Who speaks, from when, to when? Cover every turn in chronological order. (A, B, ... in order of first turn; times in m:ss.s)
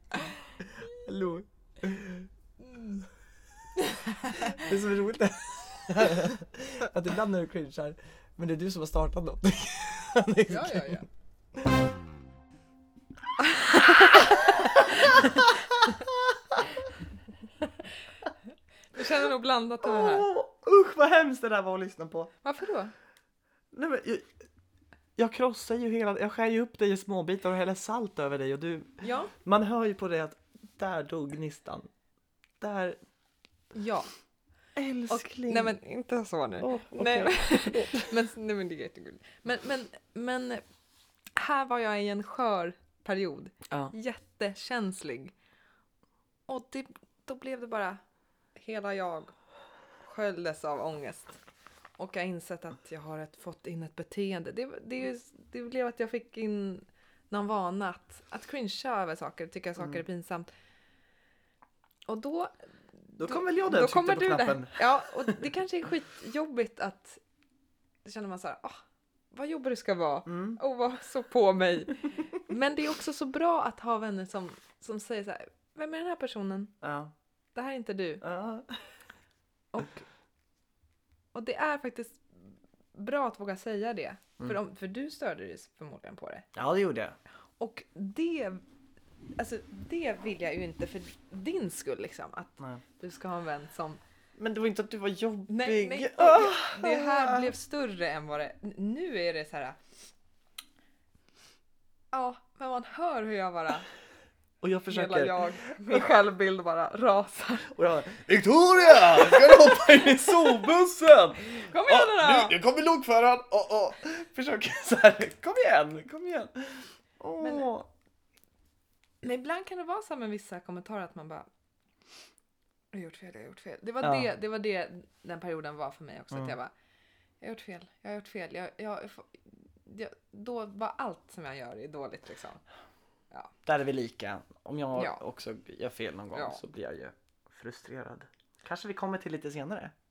0:00.8-0:02.3 A
0:02.6-0:03.1 B
0:03.8-0:04.6 B
0:04.4-0:11.0 A
0:10.5-0:11.0 B
0:13.8-0:14.6 B
0:14.1-0:16.8 A
0:18.9-0:20.3 B
0:19.8-0:22.3 A
0:22.4-0:22.9 B
0:23.7-0:24.3 A
0:25.2-0:31.9 A
0:29.0-0:29.3 B
0:32.6-0:33.0 A
0:33.7-0:34.1 B
0:34.8-0:35.7 A
0:35.1-0:40.6 B
0:36.6-0:38.2 A
0:41.4-0:45.3 B
0:46.5-0:48.0 B
0:48.6-0:49.3 B
0:50.0-0:51.4 B
0:52.0-1:00.5 B
1:02.1-1:07.2 B
1:03.2-1:05.4 A
1:08.0-1:08.8 B
1:09.3-1:16.7 B
1:10.3-1:10.6 A
1:16.8-1:17.1 A
1:17.5-1:18.2 B
1:18.2-1:18.7 A
1:19.7-1:20.0 B
1:21.3-1:22.2 B
1:22.9-1:26.5 B
1:26.5-1:27.2 A
1:27.6-1:28.6 B
1:29.4-1:34.0 B
1:34.4-1:37.5 A
1:35.5-1:39.8 B
1:42.1-1:43.9 B
1:44.6-1:46.1 A
1:44.9-1:47.7 B
1:47.7-1:57.9 A
1:48.9-1:50.4 B
1:51.5-1:52.6 B
1:57.4-1:57.7 B
1:59.2-2:01.5 B
2:02.9-2:06.7 B
2:04.0-2:04.3 A
2:07.4-2:12.6 B
2:13.6-2:19.9 A
2:14.9-2:15.2 B
2:16.3-2:16.6 B